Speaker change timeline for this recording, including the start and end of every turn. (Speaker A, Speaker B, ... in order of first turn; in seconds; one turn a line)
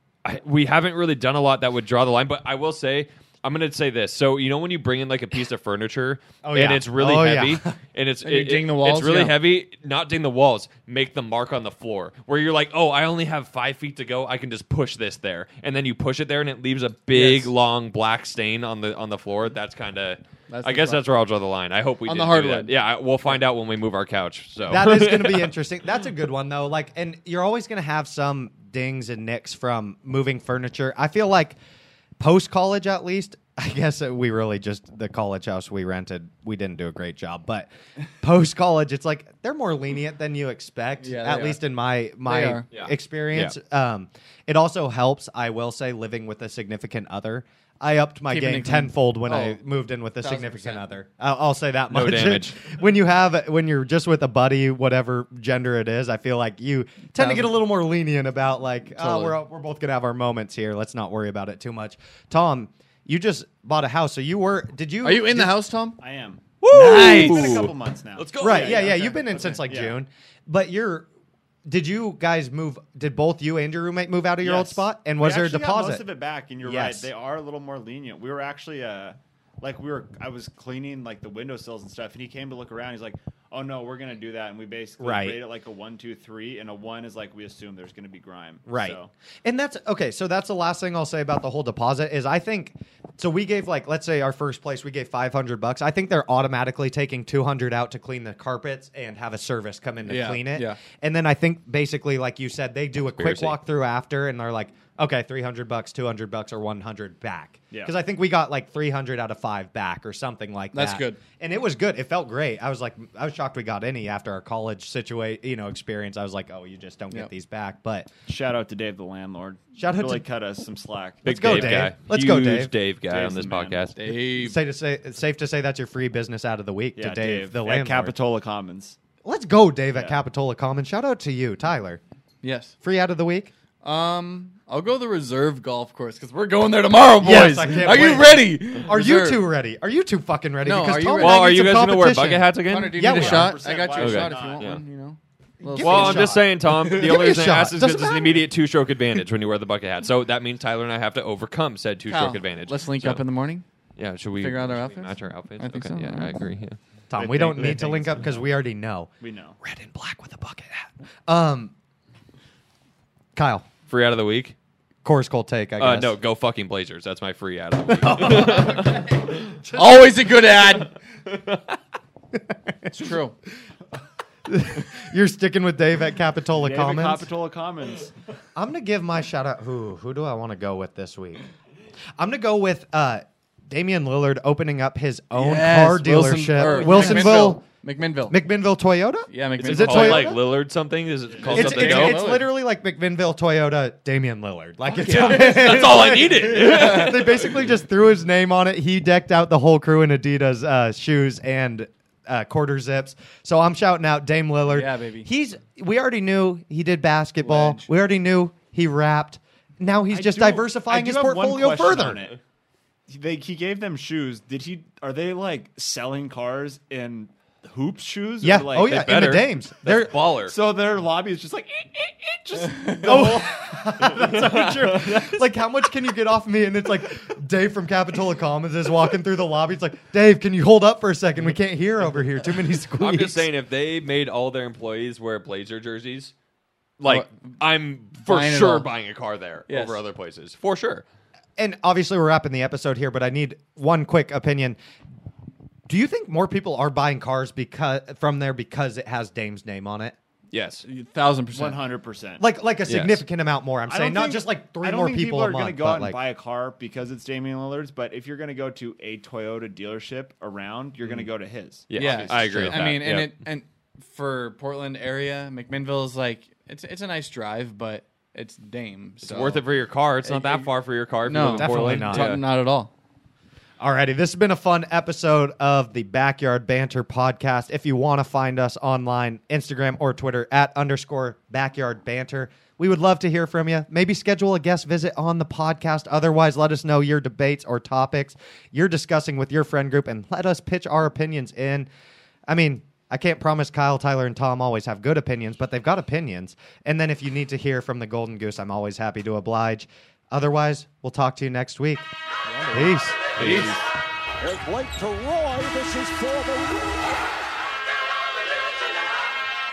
Speaker A: 0.2-25.5
Speaker B: 6.4-7.8
Speaker C: 8.2-9.4
Speaker C: 17.1-17.5
Speaker C: 20.5-21.0
Speaker C: 22.1-22.7
Speaker B: 24.7-31.6
Speaker B: 32.2-37.7
Speaker B: 38.2-65.6
Speaker C: 41.0-41.6
Speaker C: 42.2-42.7
Speaker A: 42.7-43.5
Speaker C: 48.3-49.6
Speaker C: 50.2-50.9
Speaker A: 51.9-52.7
Speaker C: 57.2-57.6
Speaker C: 59.0-59.4
Speaker C: 65.0-66.0
Speaker D: 66.0-70.0
Speaker A: 66.6-69.0
Speaker B: 66.9-67.3
Speaker B: 68.4-71.1
Speaker B: 71.7-76.0
Speaker D: 74.4-89.1
Speaker B: 76.6-77.1
Speaker B: 85.0-85.4
Speaker B: 88.7-118.1
Speaker C: 100.0-100.8
Speaker A: 103.2-103.5
Speaker C: 110.7-111.2
Speaker D: 118.3-121.9
Speaker B: 119.8-120.2
Speaker A: 121.2-124.0
Speaker B: 121.3-122.7
Speaker D: 123.1-123.9
Speaker C: 124.0-124.6
Speaker B: 124.2-128.2
Speaker D: 127.0-129.0
Speaker B: 129.2-132.0
Speaker D: 129.9-130.2
Speaker C: 132.4-132.7
Speaker B: 132.8-133.5
Speaker C: 133.8-139.5
Speaker B: 137.2-143.6
Speaker C: 140.6-141.4
Speaker A: 141.2-144.8
Speaker C: 142.7-146.8
Speaker D: 143.1-144.7
Speaker B: 145.6-148.4
Speaker A: 145.8-153.2
Speaker C: 152.1-153.7
Speaker A: 154.0-156.8
Speaker C: 154.4-156.3
Speaker B: 157.1-159.1
Speaker D: 157.1-158.4
Speaker D: 159.2-159.6
Speaker B: 159.6-161.7
Speaker B: 163.4-163.7
Speaker A: 163.9-164.6
Speaker B: 165.1-166.2
Speaker A: 165.8-169.3
Speaker B: 167.9-170.2
Speaker C: 169.7-170.9
Speaker A: 171.3-171.6
Speaker C: 172.9-173.3
Speaker B: 174.5-177.3
Speaker D: 176.6-178.1
Speaker B: 178.6-181.4
Speaker B: 182.2-187.7
Speaker C: 185.3-188.4
Speaker A: 187.0-187.4
Speaker B: 188.3-190.5
Speaker C: 189.3-190.4
Speaker A: 189.6-192.2
Speaker C: 191.4-192.5
Speaker B: 191.5-212.2
Speaker A: 194.9-197.6
Speaker C: 195.1-197.3
Speaker C: 204.7-205.3
Speaker C: 207.4-207.9
Speaker D: 210.1-212.4
Speaker D: 213.1-219.2
Speaker B: 218.4-220.2
Speaker A: 218.8-220.6
Speaker D: 220.4-223.7
Speaker B: 223.0-233.5
Speaker A: 224.2-225.4
Speaker A: 232.9-236.3
Speaker A: 237.0-241.1
Speaker C: 237.1-237.6
Speaker C: 238.2-238.9
Speaker C: 239.7-240.0
Speaker B: 241.6-244.8
Speaker B: 245.9-250.2
Speaker A: 250.5-250.8
Speaker C: 250.8-251.8
Speaker D: 251.5-252.5
Speaker B: 252.4-256.2
Speaker A: 252.9-253.2
Speaker D: 253.9-262.8
Speaker A: 261.9-263.3
Speaker C: 261.9-269.6
Speaker A: 269.2-272.4
Speaker C: 270.2-270.7
Speaker C: 271.2-272.9
Speaker B: 271.5-272.4
Speaker B: 273.8-291.9
Speaker B: 292.5-302.1
Speaker C: 302.5-302.8
Speaker B: 302.7-303.7
Speaker A: 303.4-303.8
Speaker C: 303.4-303.9
Speaker E: 304.4-307.3